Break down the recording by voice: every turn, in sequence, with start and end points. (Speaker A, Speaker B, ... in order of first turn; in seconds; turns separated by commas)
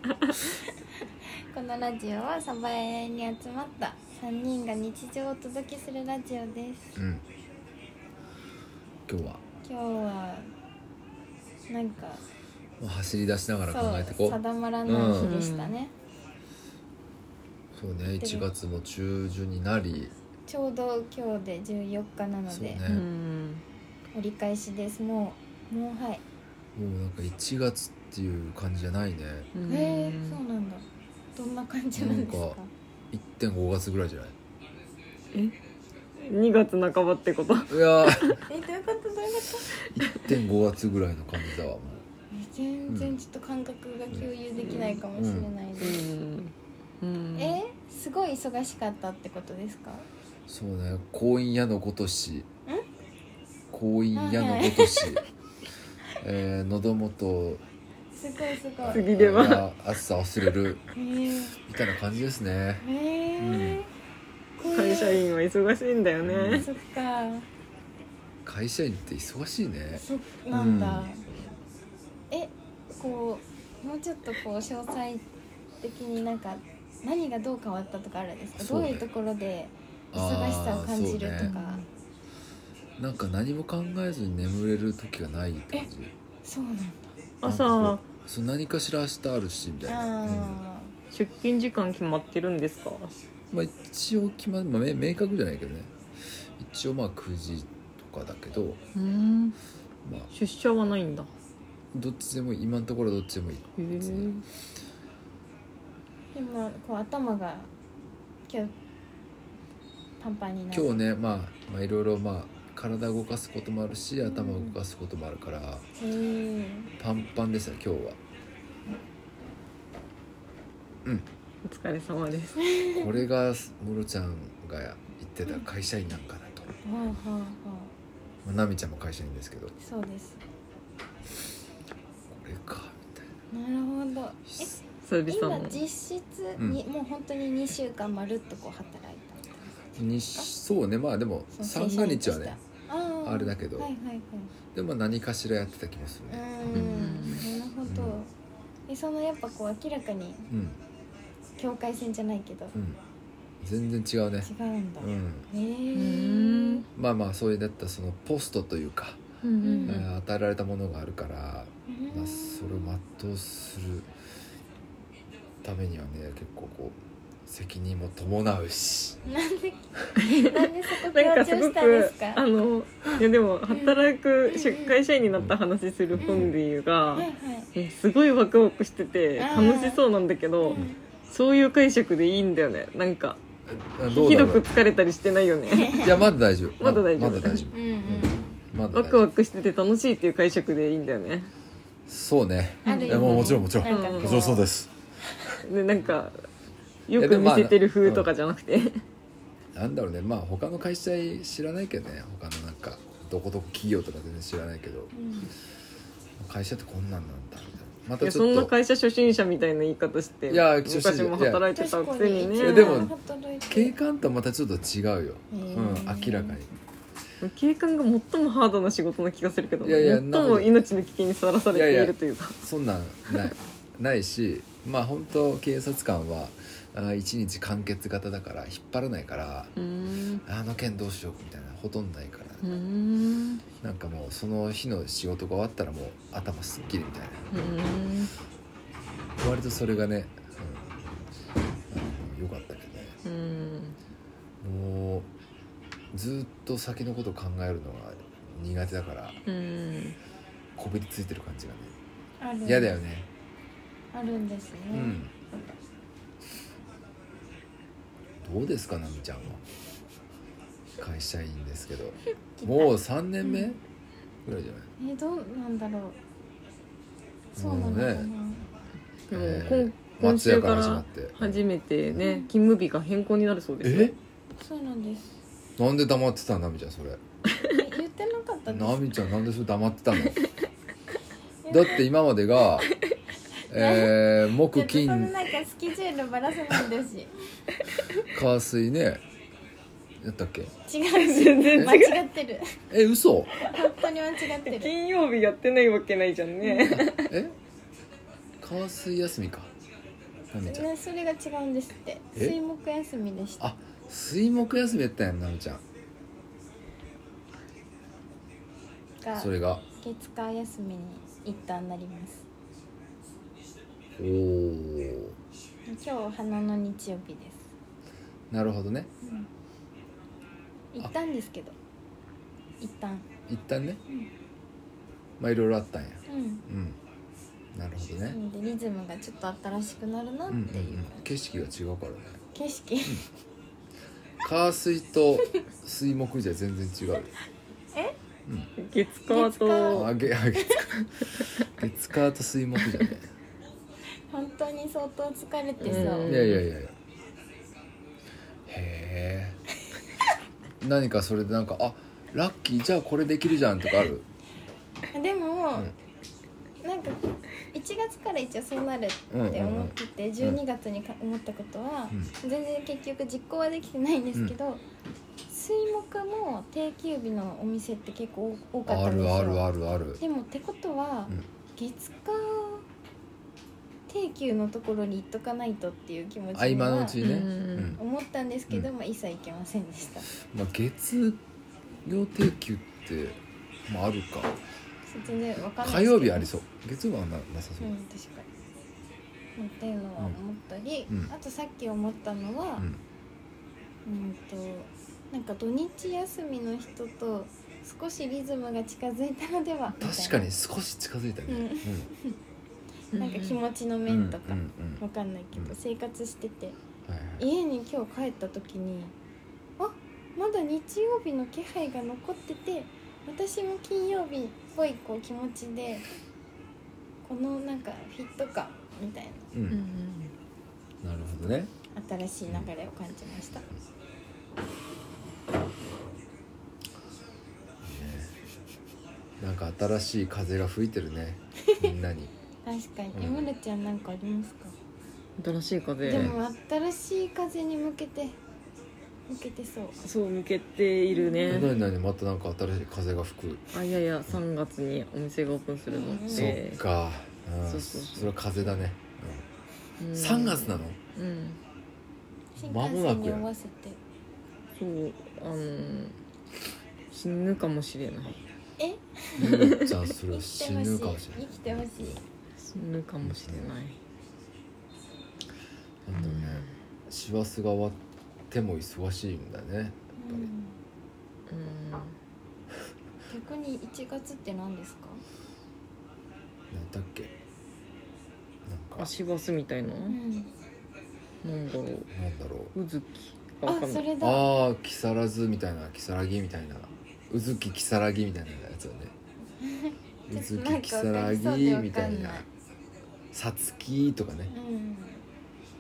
Speaker A: 1.5-7.0, Speaker B: 7.0-7.2, Speaker B: 9.1-9.4, Speaker A: 9.6-10.5, Speaker A: 11.7-12.2, Speaker B: 12.8-15.3, Speaker A: 13.7-15.9, Speaker C: 15.2-15.8, Speaker B: 17.7-20.1, Speaker A: 18.0-18.5, Speaker A: 20.4-22.8, Speaker B: 22.5-23.1, Speaker C: 22.9-23.6, Speaker A: 24.1-26.2, Speaker B: 26.8-29.5, Speaker C: 29.5-30.4, Speaker A: 29.6-32.7, Speaker B: 31.9-32.6, Speaker B: 33.1-34.3, Speaker C: 36.2-38.4, Speaker B: 37.7-38.4, Speaker A: 38.5-39.7, Speaker B: 39.9-42.0, Speaker A: 42.3-46.0, Speaker B: 42.9-43.2, Speaker C: 44.6-45.0, Speaker B: 45.1-45.5, Speaker C: 45.8-47.6, Speaker A: 47.4-50.1, Speaker B: 50.5-52.5, Speaker B: 53.7-55.2, Speaker A: 54.1-55.2, Speaker B: 56.2-57.6, Speaker A: 58.1-59.1, Speaker B: 58.8-60.8, Speaker C: 58.9-59.6, Speaker A: 60.9-61.6, Speaker B: 61.7-62.8, Speaker A: 62.8-63.9, Speaker B: 63.4-63.8, Speaker A: 64.6-65.2, Speaker C: 64.7-66.7, Speaker B: 66.2-66.7, Speaker A: 66.5-67.5, Speaker B: 68.4-71.1, Speaker A: 69.9-71.2, Speaker A: 72.3-75.2, Speaker A: 75.8-81.8, Speaker B: 78.6-79.0, Speaker B: 80.1-81.5, Speaker C: 81.4-81.8, Speaker B: 83.0-86.1, Speaker A: 86.4-87.2, Speaker C: 87.4-88.0, Speaker B: 87.4-90.6, Speaker A: 89.8-90.9, Speaker C: 91.1-93.1, Speaker B: 93.5-95.9, Speaker B: 96.6-98.8, Speaker C: 98.9-99.6, Speaker B: 100.0-100.3, Speaker C: 100.3-101.3, Speaker B: 101.9-104.3, Speaker C: 103.8-104.4, Speaker A: 106.3-107.7, Speaker A: 108.5-108.7, Speaker A: 110.2-111.0, Speaker B: 110.7-115.8, Speaker A: 114.2-114.8, Speaker A: 116.0-116.9, Speaker B: 117.0-118.2, Speaker C: 121.6-122.6, Speaker A: 122.6-123.1, Speaker B: 122.9-126.7, Speaker A: 126.8-127.9, Speaker B: 128.4-129.7, Speaker A: 129.8-130.4, Speaker B: 132.3-133.2, Speaker A: 133.5-139.7, Speaker B: 134.5-134.7, Speaker C: 135.0-135.8, Speaker B: 140.0-142.6, Speaker A: 141.5-144.5, Speaker B: 143.2-143.9, Speaker B: 144.7-146.9, Speaker A: 146.3-148.3, Speaker C: 146.7-147.4, Speaker B: 147.8-148.2, Speaker A: 148.9-150.5, Speaker B: 150.5-150.8, Speaker A: 151.6-152.7, Speaker B: 152.7-153.0, Speaker B: 153.6-155.5, Speaker A: 154.4-156.8, Speaker C: 155.9-156.8, Speaker B: 156.9-159.2, Speaker C: 159.4-160.1, Speaker A: 159.6-160.0, Speaker B: 159.8-164.1, Speaker A: 161.9-162.9, Speaker B: 165.6-169.2, Speaker A: 169.2-172.4, Speaker C: 170.2-183.4, Speaker A: 173.7-175.0, Speaker B: 176.1-176.6, Speaker A: 176.2-176.5, Speaker A: 177.1-177.7, Speaker A: 179.4-180.0, Speaker A: 180.6-181.0, Speaker B: 183.7-184.7, Speaker C: 184.1-186.2, Speaker A: 185.7-186.1, Speaker B: 186.0-189.3, Speaker C: 186.8-187.7, Speaker A: 187.7-188.6, Speaker C: 188.9-191.5, Speaker B: 192.1-194.9, Speaker C: 192.8-194.4, Speaker A: 192.8-194.7, Speaker C: 195.6-196.4, Speaker C: 197.1-198.9, Speaker B: 197.2-198.3, Speaker B: 199.7-205.1, Speaker A: 205.1-205.5, Speaker B: 206.4-208.7, Speaker C: 208.2-213.1, Speaker B: 210.5-211.7, Speaker A: 211.7-213.9, Speaker B: 212.6-213.1, Speaker B: 213.7-216.7, Speaker A: 215.5-216.6, Speaker C: 217.4-222.6, Speaker B: 219.8-220.7, Speaker B: 221.7-229.7, Speaker C: 229.8-230.4, Speaker B: 230.4-232.6, Speaker C: 232.6-233.6, Speaker B: 233.8-237.4, Speaker C: 237.5-238.3, Speaker B: 239.4-241.0, Speaker B: 241.9-243.2, Speaker C: 243.2-244.0, Speaker B: 244.6-245.3, Speaker B: 246.1-249.4, Speaker C: 249.4-250.2, Speaker B: 250.8-251.9, Speaker A: 252.4-253.0, Speaker B: 252.6-253.3, Speaker A: 254.1-255.2, Speaker B: 254.9-255.3, Speaker B: 258.4-259.6, Speaker B: 261.0-263.8, Speaker A: 262.6-262.9, Speaker B: 264.4-264.9, Speaker A: 265.0-266.2, Speaker B: 267.6-268.3, Speaker A: 267.6-268.7, Speaker C: 269.3-274.1, Speaker B: 269.3-271.6, Speaker A: 272.2-272.5, Speaker B: 273.8-274.1, Speaker A: 274.6-275.4, Speaker B: 275.8-277.2, Speaker A: 277.7-279.2, Speaker B: 278.7-280.4, Speaker A: 281.6-282.0, Speaker B: 281.7-282.9, Speaker A: 283.6-287.3, Speaker B: 283.7-285.4, Speaker B: 288.2-289.2, Speaker B: 290.2-290.7, Speaker A: 290.9-292.8, Speaker C: 291.1-292.2, Speaker B: 292.9-293.5, Speaker C: 293.6-294.0, Speaker A: 293.6-294.9, Speaker C: 294.6-297.4, Speaker A: 296.6-297.0, Speaker B: 296.9-297.5, Speaker B: 298.6-299.7, Speaker B: 300.5-300.9, Speaker A: 300.6-303.6, Speaker B: 303.6-305.8, Speaker A: 309.2-312.4, Speaker B: 309.4-309.8, Speaker B: 314.2-315.3, Speaker A: 315.9-317.7, Speaker B: 318.5-319.1, Speaker A: 319.2-319.5, Speaker A: 320.9-321.7, Speaker A: 322.8-323.3, Speaker B: 323.5-324.0, Speaker B: 325.4-327.0, Speaker A: 326.3-326.6, Speaker B: 327.7-328.4, Speaker A: 328.3-331.2, Speaker B: 330.5-332.4, Speaker A: 332.5-333.2, Speaker B: 334.4-337.3, Speaker B: 338.4-338.7, Speaker C: 338.8-340.1, Speaker A: 339.3-340.9, Speaker B: 339.9-340.9, Speaker B: 341.6-343.2, Speaker A: 344.3-346.5, Speaker C: 345.8-346.6, Speaker B: 345.9-346.9, Speaker B: 348.7-349.6, Speaker B: 350.8-354.2, Speaker A: 355.1-355.9, Speaker A: 356.8-357.2, Speaker A: 357.7-364.8, Speaker B: 359.3-360.6, Speaker A: 365.5-369.6, Speaker B: 368.9-370.2, Speaker A: 370.2-372.9, Speaker A: 374.1-377.2, Speaker B: 376.5-378.0, Speaker C: 377.2-378.0, Speaker A: 377.9-380.3, Speaker B: 380.4-381.4, Speaker B: 382.0-384.5, Speaker A: 385.1-386.5, Speaker B: 385.8-387.9, Speaker A: 387.8-388.5, Speaker A: 389.6-392.9, Speaker A: 394.1-400.5, Speaker B: 400.0-402.1, Speaker A: 401.5-402.4, Speaker A: 403.1-406.8, Speaker C: 403.1-403.6, Speaker B: 404.1-405.0, Speaker B: 407.1-407.4, Speaker A: 407.4-409.1, Speaker A: 409.8-416.1, Speaker A: 417.2-419.5, Speaker B: 419.5-419.8, Speaker C: 419.7-420.3, Speaker B: 421.0-421.7, Speaker A: 421.9-423.7, Speaker B: 427.8-428.4, Speaker B: 429.4-432.3, Speaker A: 431.7-431.9, Speaker A: 432.6-434.7, Speaker B: 433.1-433.5, Speaker C: 435.4-436.4, Speaker A: 436.0-438.4, Speaker A: 439.3-440.0, Speaker C: 440.0-441.7, Speaker A: 441.1-441.9, Speaker B: 441.5-443.7, Speaker C: 443.7-446.8, Speaker A: 445.9-446.6, Speaker B: 446.3-449.4, Speaker C: 447.6-448.8, Speaker C: 450.0-451.6, Speaker B: 450.1-451.0, Speaker A: 452.6-454.0, Speaker B: 452.6-453.5, Speaker C: 454.8-456.1, Speaker C: 457.1-458.4, Speaker A: 458.8-459.6, Speaker B: 459.4-462.2, Speaker C: 459.5-460.0, Speaker A: 460.3-462.2, Speaker C: 462.6-463.9, Speaker B: 463.2-463.7, Speaker B: 466.1-468.0, Speaker C: 466.1-466.7, Speaker B: 468.5-470.5, Speaker A: 470.2-470.8, Speaker C: 471.5-472.2, Speaker A: 473.3-475.2, Speaker B: 476.7-477.3, Speaker B: 478.6-479.1, Speaker C: 479.0-480.2, Speaker A: 480.1-480.5, Speaker C: 481.4-482.1, Speaker B: 482.1-482.7, Speaker C: 482.7-484.1, Speaker A: 483.6-484.5, Speaker B: 484.2-489.1, Speaker A: 489.6-492.4, Speaker B: 490.3-492.4, Speaker B: 493.3-494.5, Speaker A: 494.5-495.2